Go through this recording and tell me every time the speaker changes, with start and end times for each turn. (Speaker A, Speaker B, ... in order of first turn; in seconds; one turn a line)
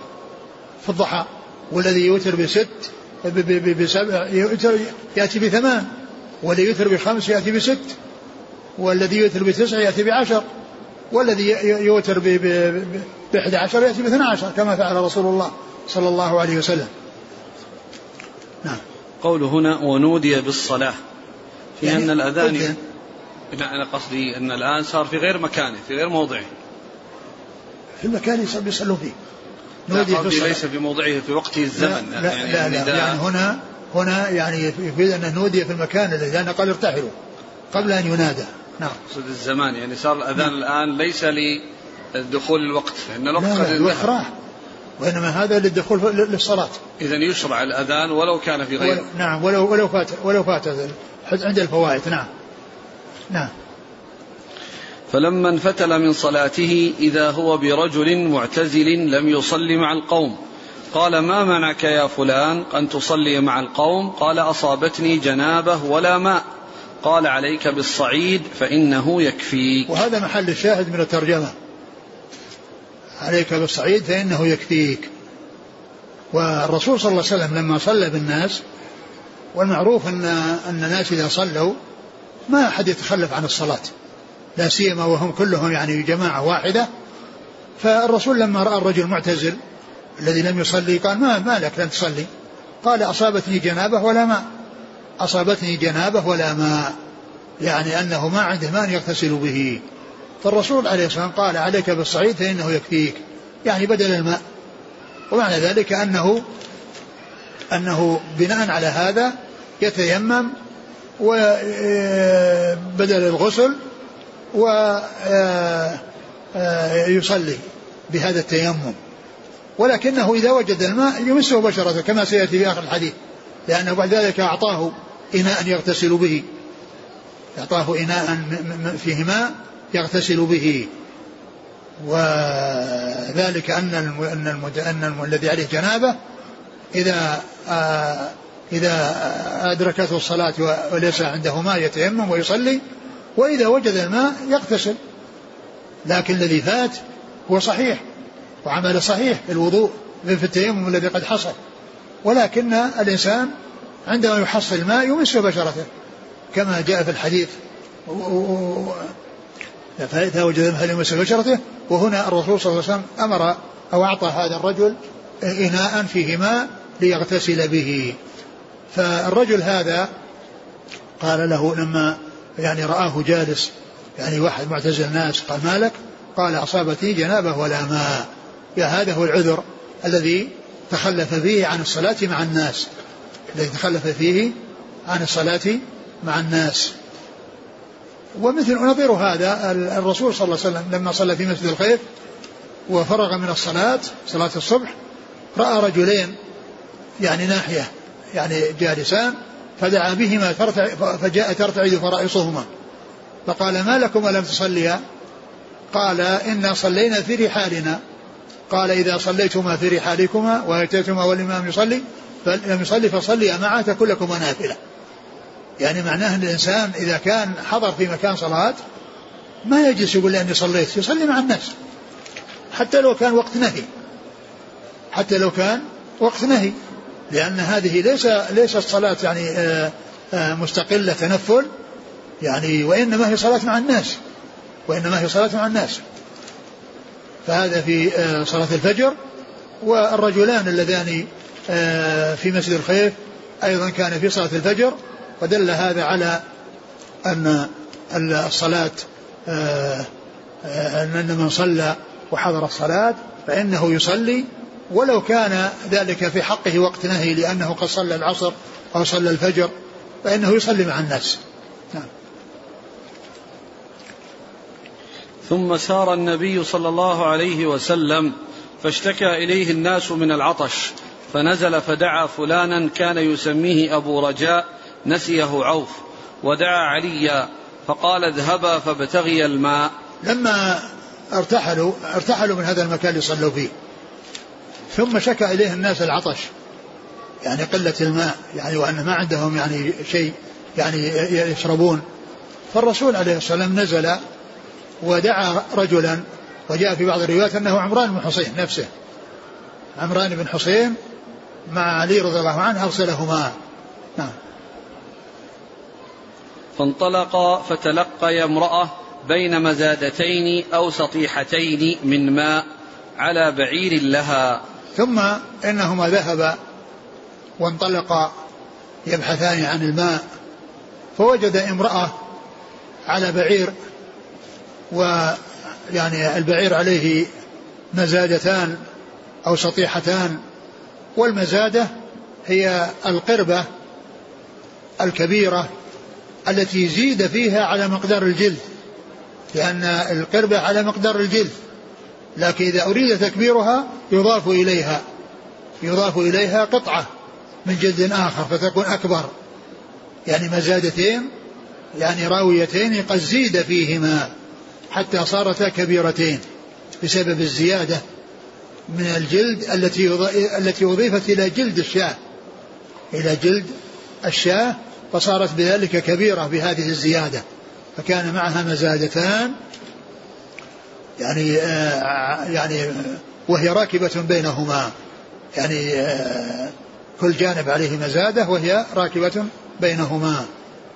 Speaker A: 0.8-5.9
Speaker A: 6.4-8.0
Speaker A: 8.8-10.4
Speaker A: 11.1-16.9
Speaker B: 19.2-20.9
Speaker B: 21.8-22.8
Speaker A: 21.8-22.8
Speaker B: 23.5-26.5
Speaker A: 28.0-29.1
Speaker A: 29.9-30.6
Speaker B: 29.9-33.2
Speaker A: 31.8-37.1
Speaker A: 37.7-39.0
Speaker B: 39.1-44.1
Speaker A: 43.4-44.3
Speaker A: 45.0-46.8
Speaker B: 47.0-49.0
Speaker A: 48.8-52.3
Speaker B: 55.1-60.4
Speaker B: 60.9-66.4
Speaker B: 67.0-69.9
Speaker A: 69.9-71.5
Speaker A: 73.2-75.1
Speaker A: 76.3-78.6
Speaker A: 79.5-81.8
Speaker A: 82.5-83.9
Speaker A: 84.6-86.9
Speaker A: 87.8-89.6
Speaker A: 90.2-92.3
Speaker A: 92.8-94.4
Speaker A: 95.2-96.9
Speaker A: 97.6-99.8
Speaker A: 100.4-104.4
Speaker A: 105.3-106.4
Speaker A: 107.7-110.5
Speaker A: 111.2-113.8
Speaker A: 114.5-116.0
Speaker A: 116.5-119.0
Speaker A: 119.8-123.1
Speaker A: 123.7-126.5
Speaker A: 127.5-130.9
Speaker A: 132.0-136.2
Speaker A: 136.9-142.8
Speaker A: 143.3-145.0
Speaker A: 146.0-148.0
Speaker A: 148.6-151.5
Speaker A: 152.2-153.5
Speaker A: 154.1-155.9
Speaker A: 156.5-157.5
Speaker A: 158.1-159.1
Speaker A: 160.0-168.2
Speaker A: 168.9-170.1
Speaker A: 171.2-182.9
Speaker A: 183.5-184.5
Speaker A: 185.1-186.9
Speaker A: 188.4-192.0
Speaker A: 192.9-194.9
Speaker A: 195.5-196.3
Speaker A: 197.2-202.7
Speaker A: 203.4-205.0
Speaker A: 205.9-208.0
Speaker A: 208.7-214.8
Speaker A: 215.8-218.8
Speaker A: 219.6-221.7
Speaker A: 222.7-223.9
Speaker A: 225.1-226.7
Speaker A: 227.3-231.7
Speaker A: 232.4-234.2
Speaker A: 234.9-236.0
Speaker A: 237.4-239.1
Speaker A: 239.8-246.4
Speaker A: 247.2-250.1
Speaker A: 250.6-259.7
Speaker A: 260.2-261.4
Speaker B: 265.5-279.9
Speaker A: 280.2-283.7
Speaker A: 284.9-286.5
Speaker A: 287.4-292.0
Speaker A: 292.7-294.2
Speaker A: 295.0-298.9
Speaker A: 300.0-300.9
Speaker A: 301.7-303.5
Speaker B: 306.8-312.6
Speaker B: 313.2-314.6
Speaker A: 314.9-316.6
Speaker A: 317.6-318.3
Speaker A: 319.1-320.2
Speaker A: 321.1-322.1
Speaker A: 323.1-323.7
Speaker A: 324.9-327.3
Speaker A: 327.9-328.8
Speaker A: 329.4-330.4
Speaker A: 331.2-331.9
Speaker A: 332.4-333.6
Speaker A: 335.0-335.7
Speaker A: 336.5-338.6
Speaker A: 339.5-341.5
Speaker A: 342.4-345.0
Speaker A: 345.8-347.1
Speaker A: 347.6-349.3
Speaker A: 350.3-351.3
Speaker A: 352.0-354.3
Speaker A: 354.9-356.4
Speaker A: 357.0-358.0
Speaker A: 358.9-362.1
Speaker A: 363.1-363.7
Speaker A: 364.2-367.4
Speaker A: 368.0-369.5
Speaker A: 371.2-374.9
Speaker A: 375.6-380.5